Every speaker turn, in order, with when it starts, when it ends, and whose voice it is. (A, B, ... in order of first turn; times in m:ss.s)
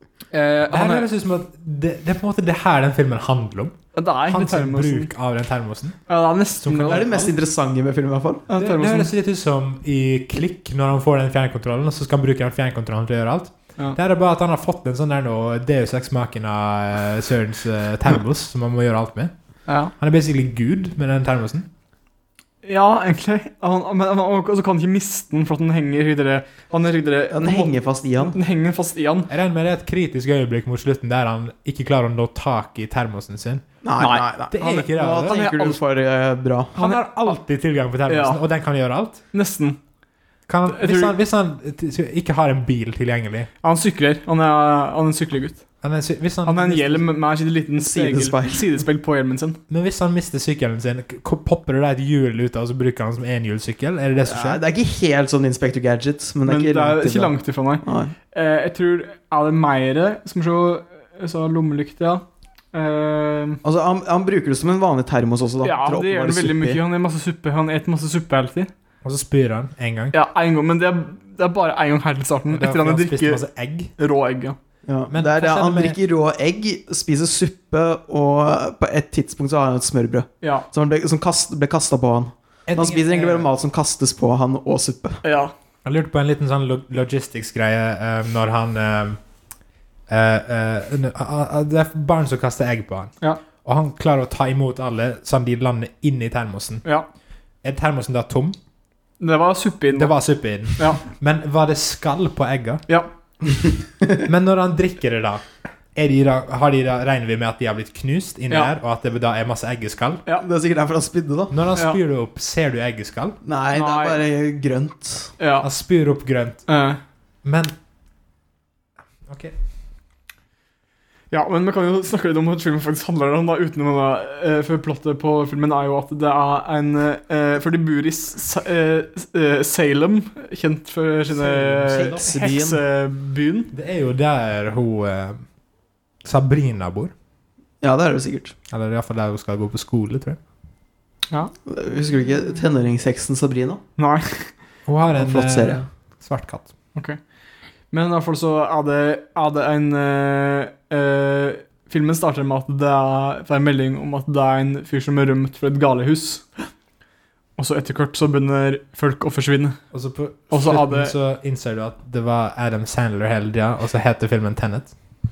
0:00.3-0:01.1 A
0:00.7-0:06.0 B
0:03.9-0:05.1 A
0:06.1-0:07.3 A
0:06.6-0:07.1 B
0:06.9-0:08.4 C
0:08.5-0:09.1 A
0:08.6-0:19.3 B
0:20.0-0:21.7 B
0:22.6-0:29.3 A
0:27.3-0:28.4 C
0:29.3-0:33.6 B
0:33.8-0:36.8 C
0:34.0-0:34.2 A
0:34.5-0:35.4 B
0:35.3-0:35.8 A
0:36.8-0:39.2 B
0:38.1-0:38.4 A
0:39.3-0:39.8 A
0:40.5-0:43.5 B
0:40.7-0:41.1 A
0:43.6-0:45.6 A
0:45.8-0:47.0 B
0:46.4-0:49.6 A
0:47.8-0:48.6 C
0:49.7-0:54.6 B
0:54.2-0:58.1 C
0:56.4-1:03.6 A
1:03.6-1:06.8 C
1:05.6-1:08.7 A
1:09.0-1:10.1 B
1:10.1-1:13.4 A
1:12.5-1:13.9 B
1:14.0-1:14.6 A
1:14.9-1:25.2 C
1:15.1-1:16.0 B
1:20.4-1:20.7 A
1:22.7-1:23.5 B
1:25.2-1:25.5 A
1:25.8-1:29.2 B
1:30.1-1:33.1 B
1:33.6-1:36.8 B
1:37.6-1:38.6 B
1:39.2-1:41.0 A
1:39.9-1:42.8 B
1:44.2-1:45.4 B
1:45.9-1:50.2 B
1:50.4-1:51.6 C
1:51.5-1:53.4 B
1:53.4-1:55.3 C
1:53.7-1:54.2 A
1:55.4-1:55.7 A
1:55.6-1:56.6 B
1:56.7-1:57.0 A
1:57.4-1:57.7 B
1:59.2-1:59.5 B
2:01.3-2:13.7 A
2:11.4-2:12.8 C
2:11.8-2:12.2 B
2:13.7-2:15.4 B
2:16.2-2:17.1 B
2:17.8-2:18.5 C
2:18.7-2:20.4 B
2:21.6-2:23.8 C
2:24.0-2:24.5 A
2:24.8-2:26.7 B
2:25.1-2:25.8 C
2:27.9-2:36.5 A
2:37.6-2:39.8 A
2:39.9-2:44.9 B
2:40.5-2:41.1 A